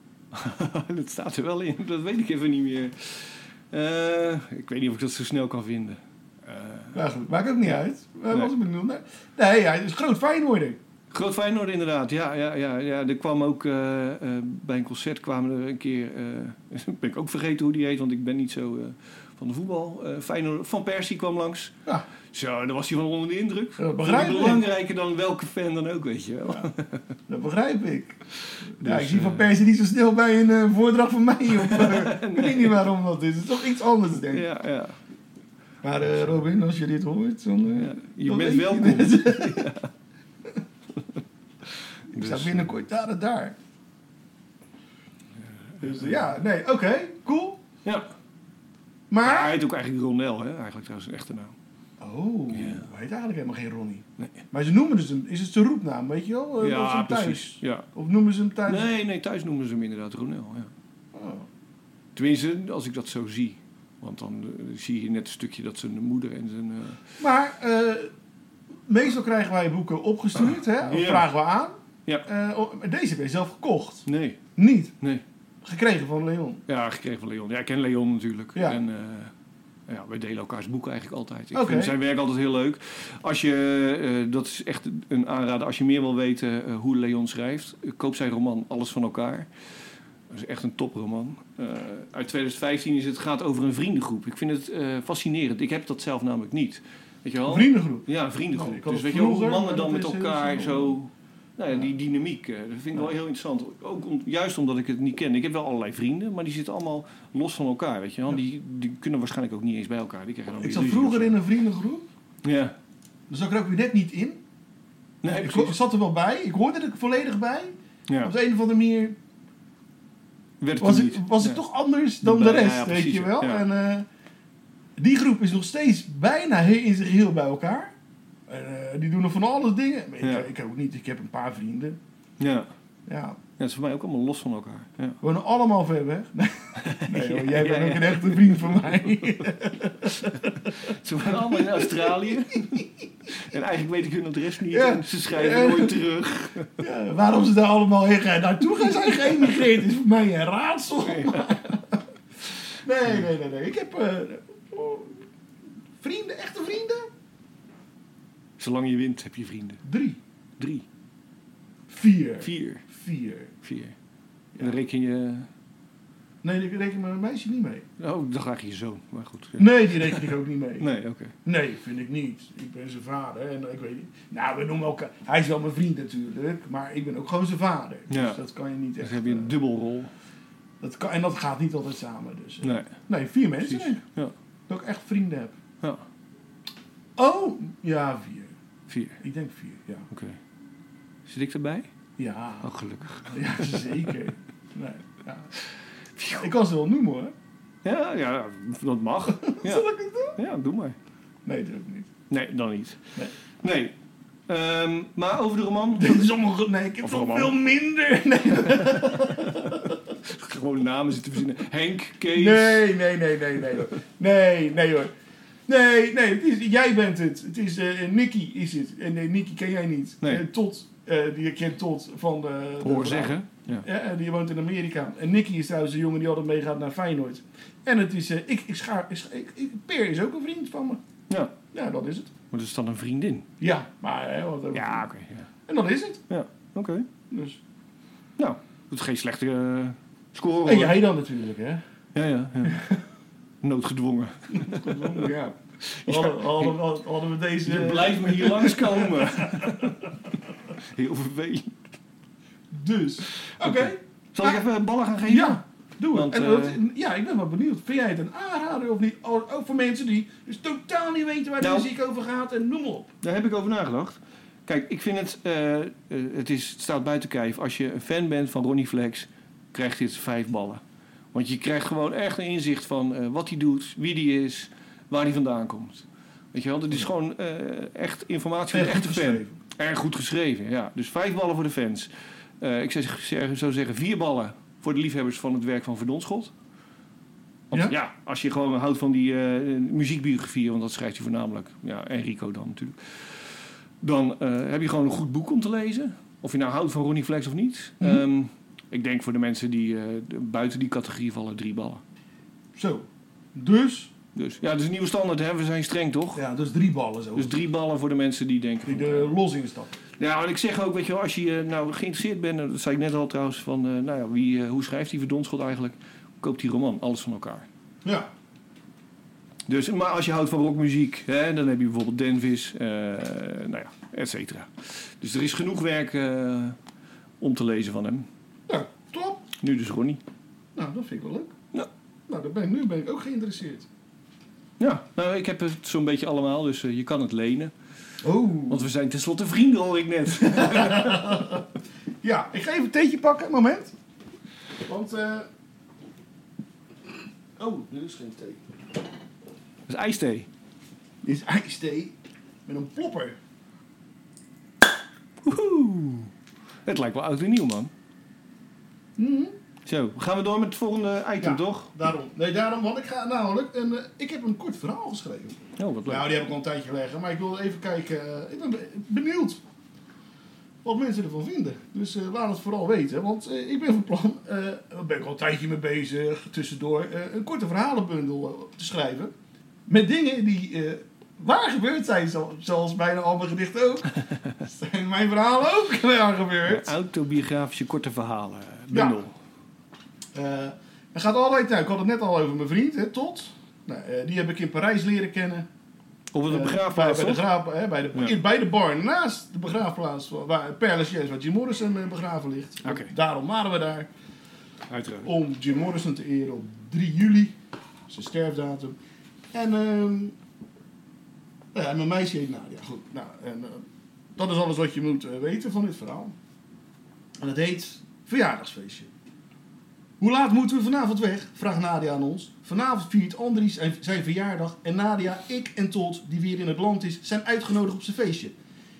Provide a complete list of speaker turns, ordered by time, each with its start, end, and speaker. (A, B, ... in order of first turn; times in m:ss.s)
0:00.3-0:07.0 A
0:06.9-0:10.8 B
0:11.1-0:21.7 A
0:22.3-0:27.0 A
0:23.8-0:24.6 B
0:27.3-0:28.2 B
0:28.8-0:29.4 A
0:28.8-0:34.5 B
0:31.6-0:32.8 A
0:34.3-0:35.0 A
0:35.8-0:39.6 B
0:37.7-0:39.9 A
0:42.1-0:42.7 A
0:42.1-0:43.6 B
0:45.8-0:46.1 A
0:45.8-0:47.6 B
0:47.8-0:48.1 A
0:49.1-0:49.5 B
0:49.2-0:51.5 A
0:52.0-0:58.9 B
0:52.5-0:52.9 A
0:56.6-0:57.8 A
0:58.6-1:00.7 A
1:01.1-1:01.4 B
1:02.1-1:07.0 A
1:07.2-1:08.1 B
1:08.9-1:14.9 B
1:10.8-1:11.3 A
1:14.0-1:14.4 A
1:15.6-1:16.6 B
1:16.7-1:19.3 A
1:19.9-1:29.5 A
1:21.5-1:21.9 B
1:30.3-1:51.4 A
1:37.5-1:41.0 B
1:50.6-1:52.0 B
1:52.4-1:52.7 A
1:53.3-1:54.4 B
1:55.2-1:55.8 A
1:55.2-1:59.2 B
1:58.1-1:58.3 A
2:00.6-2:01.6 A
2:00.8-2:04.1 B
2:02.2-2:03.6 A
2:05.0-2:07.9 B
2:08.5-2:12.0 B
2:10.2-2:10.5 A
2:12.4-2:12.7 A
2:13.1-2:13.4 B
2:13.6-2:15.2 A
2:15.2-2:20.7 B
2:16.8-2:18.9 A
2:20.2-2:26.8 A
2:21.3-2:22.9 B
2:24.7-2:26.0 B
2:26.8-2:32.0 B
2:31.0-2:31.7 A
2:32.8-2:35.2 B
2:36.0-2:37.1 B
2:38.6-2:39.8 A
2:39.8-2:40.2 B
2:40.6-2:40.8 A
2:41.9-2:43.5 B
2:42.4-2:42.8 A
2:43.6-2:43.9 A
2:44.6-2:45.5 A
2:46.4-2:47.8 B
2:48.0-2:51.3 A
2:49.6-2:50.9 B
2:51.4-2:59.5 B
2:58.1-2:58.4 A
2:59.0-3:00.1 A
3:00.8-3:04.0 B
3:02.6-3:02.9 A
3:03.6-3:04.3 A
3:04.7-3:05.6 B
3:07.2-3:08.5 B
3:08.9-3:09.2 A
3:09.2-3:10.1 B
3:10.1-3:10.4 A
3:11.2-3:11.9 A
3:12.2-3:12.7 B
3:12.6-3:14.1 A
3:13.3-3:15.5 B
3:16.2-3:16.5 A
3:16.3-3:17.3 B
3:17.8-3:21.0 A
3:19.5-3:20.4 B
3:21.4-3:22.1 B
3:22.3-3:23.0 A
3:23.6-3:23.9 A
3:24.5-3:26.2 A
3:26.0-3:30.0 B
3:27.0-3:27.6 A
3:28.6-3:32.9 A
3:32.3-3:35.1 B
3:35.7-3:51.0 B
3:42.8-3:43.8 A
3:51.3-3:51.5 A
3:51.7-3:52.3 B
3:52.5-3:53.5 A
3:53.6-3:55.0 B
3:54.7-3:55.5 A
3:55.7-3:56.2 B
3:56.3-3:57.1 A
3:57.3-3:57.6 B
3:58.4-4:01.0 A
4:00.6-4:01.8 B
4:02.1-4:02.8 A
4:02.6-4:03.0 B
4:03.6-4:05.3 A
4:04.5-4:09.9 B
4:05.8-4:06.8 A
4:07.6-4:10.1 A
4:10.8-4:11.8 A
4:12.7-4:14.6 B
4:13.3-4:15.6 A
4:15.3-4:23.1 B
4:16.1-4:16.8 A
4:21.6-4:21.9 A
4:23.2-4:30.8 A
4:31.3-4:42.1 A
4:38.7-4:39.6 B
4:42.6-4:46.5 A
4:47.7-4:53.0 A
4:54.0-5:02.0 A
5:02.7-5:04.1 B
5:04.3-5:06.4 A
5:06.3-5:07.6 B
5:07.3-5:09.3 A
5:08.8-5:10.0 B
5:10.2-5:17.7 A
5:19.7-5:26.8 A
5:27.4-5:28.3 A
5:28.7-5:29.4 B
5:29.6-5:30.2 A
5:30.7-5:31.5 B
5:32.3-5:33.9 B
5:34.8-5:37.7 A
5:38.2-5:38.8 B
5:38.7-5:41.6 A
5:40.4-5:41.6 B
5:42.2-5:43.9 B
5:44.8-5:45.5 B
5:47.6-5:48.7 B
5:49.9-5:50.5 A
5:51.2-5:52.1 B
5:52.6-5:53.4 B
5:55.4-5:56.3 A
5:56.8-5:57.9 A
5:59.2-5:59.5 B
5:59.8-6:01.9 A
6:01.4-6:09.6 B
6:05.8-6:06.3 A
6:10.8-6:19.3 B
6:19.9-6:26.9 B
6:26.6-6:29.3 A
6:28.9-6:29.2 B
6:30.3-6:35.7 B
6:36.3-6:37.4 A
6:36.5-6:44.1 B
6:42.8-6:43.1 A
6:44.9-6:45.3 A
6:45.2-6:47.5 B
6:48.1-6:49.0 B
6:49.5-6:50.4 B
6:51.7-6:53.8 B
6:54.4-6:56.4 B
6:57.4-6:59.1 B
7:00.2-7:08.5 B